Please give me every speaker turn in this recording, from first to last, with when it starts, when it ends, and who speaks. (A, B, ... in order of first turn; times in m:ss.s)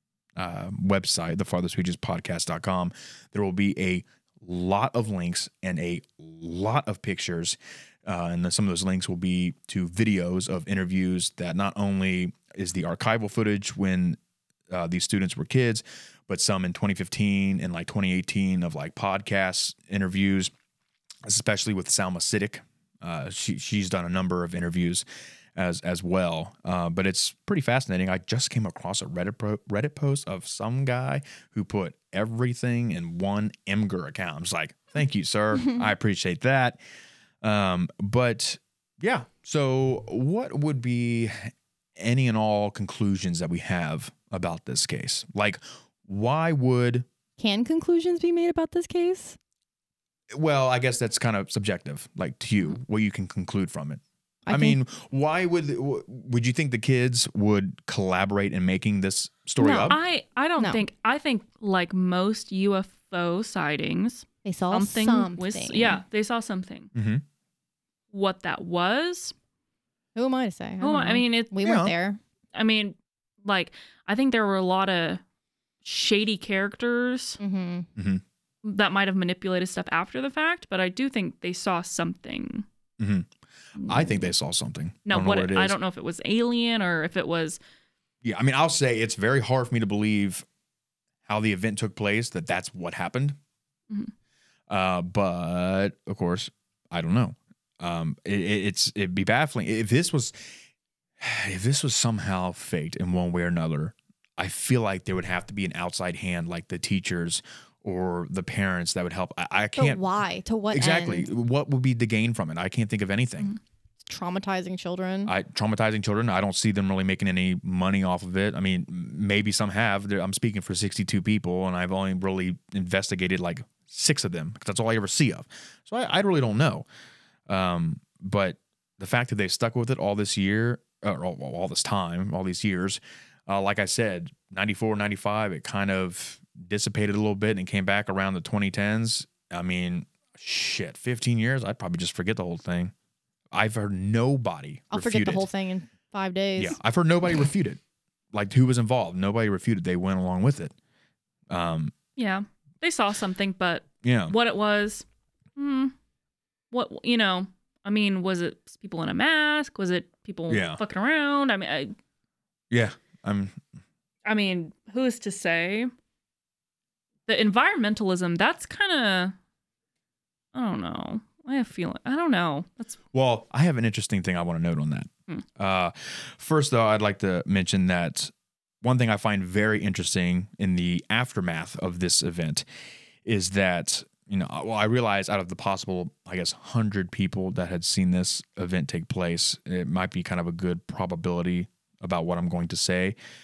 0:00.4-0:14.2 A
0:14.7-0:20.5 A
0:21.2-0:36.8 A
0:37.4-0:47.0 A
0:47.4-0:49.4 B
0:50.3-1:00.0 A
0:54.4-0:54.8 B
0:59.6-1:06.9 C
1:00.6-1:00.8 B
1:04.4-1:06.0 B
1:06.9-1:07.2 A
1:08.1-1:09.3 C
1:10.1-1:12.2 B
1:10.8-1:11.5 C
1:11.6-1:11.9 A
1:12.5-1:15.2 C
1:15.8-1:17.4 C
1:17.4-1:17.9 B
1:18.0-1:18.2 A
1:18.6-1:22.6 C
1:23.0-1:23.3 A
1:23.8-1:24.3 C
1:23.8-1:25.8 A
1:25.1-1:27.6 C
1:28.2-1:30.4 A
1:31.2-1:33.4 A
1:34.7-1:40.4 A
1:41.2-1:50.0 A
1:49.8-1:51.3 B
1:50.7-1:53.5 A
1:54.0-1:55.3 B
1:55.2-2:06.8 A
2:07.5-2:22.9 A
2:23.5-2:25.5 A
2:24.9-2:26.8 B
2:26.6-2:27.8 A
2:28.3-2:30.7 A
2:31.5-2:31.9 A
2:32.2-2:35.0 C
2:34.0-2:34.3 A
2:35.6-2:35.9 C
2:36.7-2:41.9 C
2:40.5-2:40.8 A
2:42.7-2:43.6 A
2:44.2-2:45.9 C
2:47.3-2:49.3 C
2:50.5-2:53.0 C
2:53.1-3:02.6 A
3:03.2-3:13.2 A